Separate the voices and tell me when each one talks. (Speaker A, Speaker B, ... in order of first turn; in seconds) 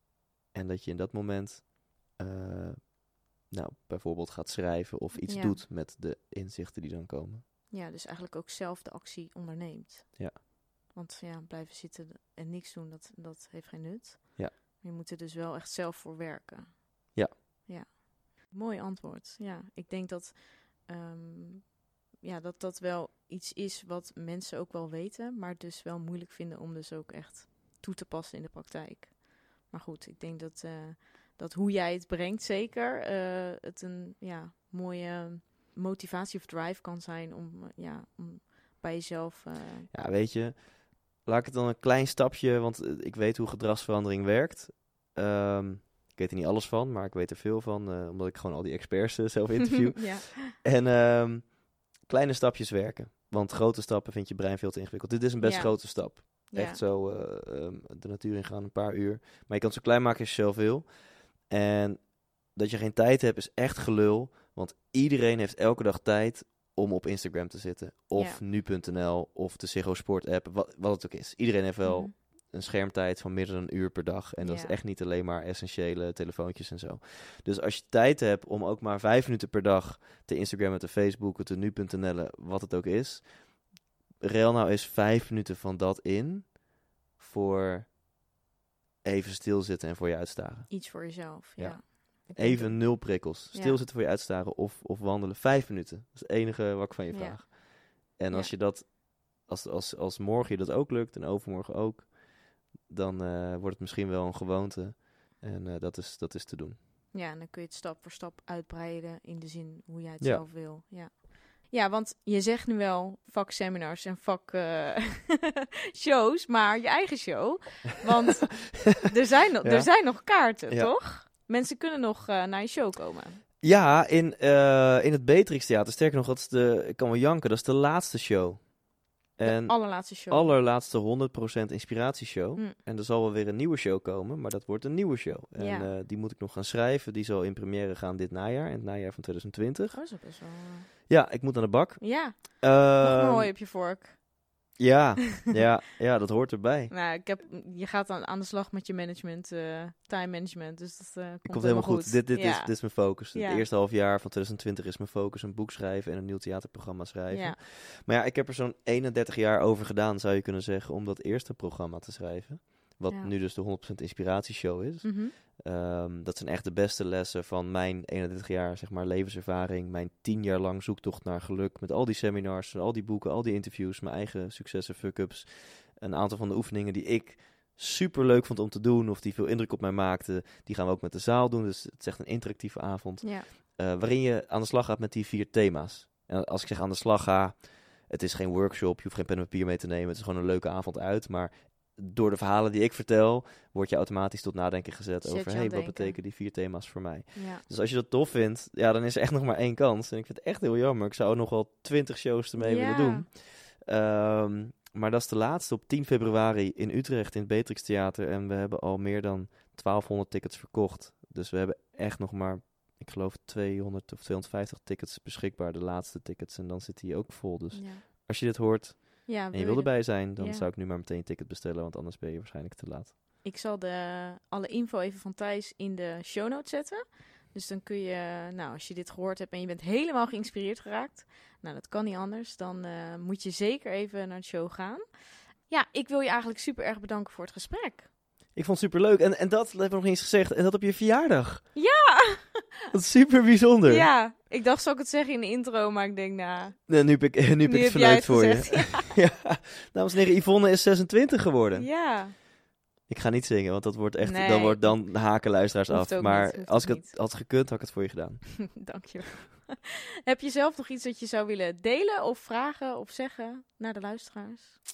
Speaker A: 0.5-7.5, 39.9-88.0, 89.0-106.8, 110.2-110.5, 119.6-121.0, 123.6-128.8, 129.3-140.0, 141.1-143.5, 144.8-146.9, 151.5-223.2, 238.5-241.7, 242.9-244.1, 246.9-251.9, 253.1-258.7
Speaker B: 5.3-5.6, 7.7-39.9, 50.0-50.5, 55.4-56.8, 68.2-68.4, 71.8-72.1, 74.4-74.8, 90.7-93.8, 97.1-98.5, 107.1-123.4, 129.4-130.5, 135.6-135.9, 139.9-141.1, 142.0-144.8, 146.9-153.7, 157.3-157.6, 165.0-165.3, 183.2-183.5, 195.2-196.2, 197.3-197.6, 202.6-203.3, 217.7-218.1, 219.3-220.7, 223.4-235.1, 235.7-238.1, 241.7-242.9, 243.9-249.2, 251.7-252.3, 254.2-257.1, 258.7-264.8